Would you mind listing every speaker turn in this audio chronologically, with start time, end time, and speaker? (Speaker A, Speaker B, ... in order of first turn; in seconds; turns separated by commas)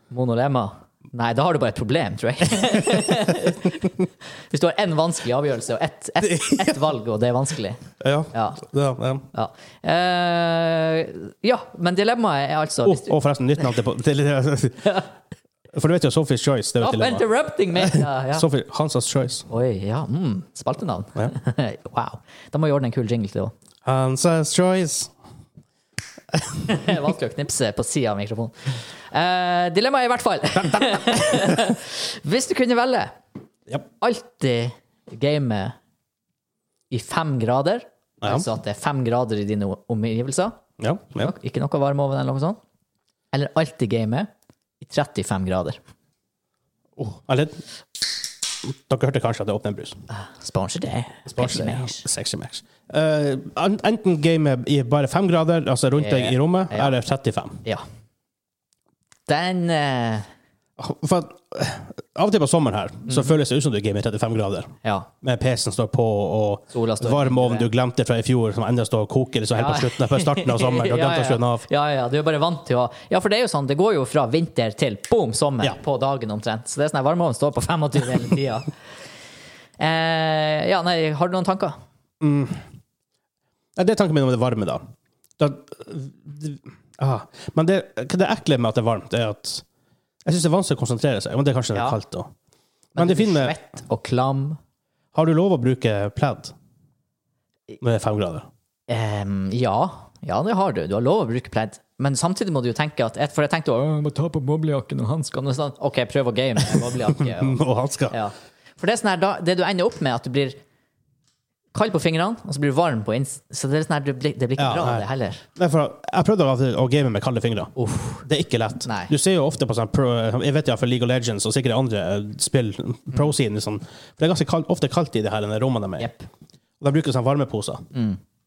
Speaker A: 0.1-7.8, Speaker B: 6.3-6.8, Speaker B: 8.0-9.3, Speaker A: 8.3-8.6, Speaker A: 9.3-13.1, Speaker B: 12.8-15.0, Speaker B: 15.7-19.5, Speaker A: 16.8-18.5, Speaker A: 19.5-23.5, Speaker B: 23.9-25.1, Speaker A: 26.6-33.1, Speaker B: 30.7-31.6, Speaker A: 34.0-35.8, Speaker A: 36.9-40.6, Speaker B: 40.8-41.3, Speaker A: 41.2-42.6, Speaker A: 43.3-44.3, Speaker A: 44.8-45.8, Speaker B: 47.0-50.0, Speaker A: 50.1-52.0, Speaker B: 51.3-57.6, Speaker A: 56.0-56.9, Speaker A: 59.3-60.3, Speaker B: 60.8-71.7, Speaker A: 64.8-65.1, Speaker A: 66.7-67.7, Speaker A: 69.5-78.7, Speaker A: 79.8-81.8, Speaker B: 82.2-82.6, Speaker B: 83.8-84.8, Speaker B: 85.4-89.7, Speaker B: 90.2-92.3, Speaker B: 93.0-93.6, Speaker A: 93.0-94.6, Speaker B: 95.1-96.5, Speaker B: 97.8-98.5, Speaker A: 98.9-110.6, Speaker B: 107.1-108.2, Speaker A: 111.7-115.5, Speaker B: 114.6-117.7, Speaker A: 117.8-118.2, Speaker B: 118.2-126.1, Speaker A: 118.8-119.1, Speaker A: 126.0-126.3, Speaker B: 126.8-127.9, Speaker A: 127.9-128.2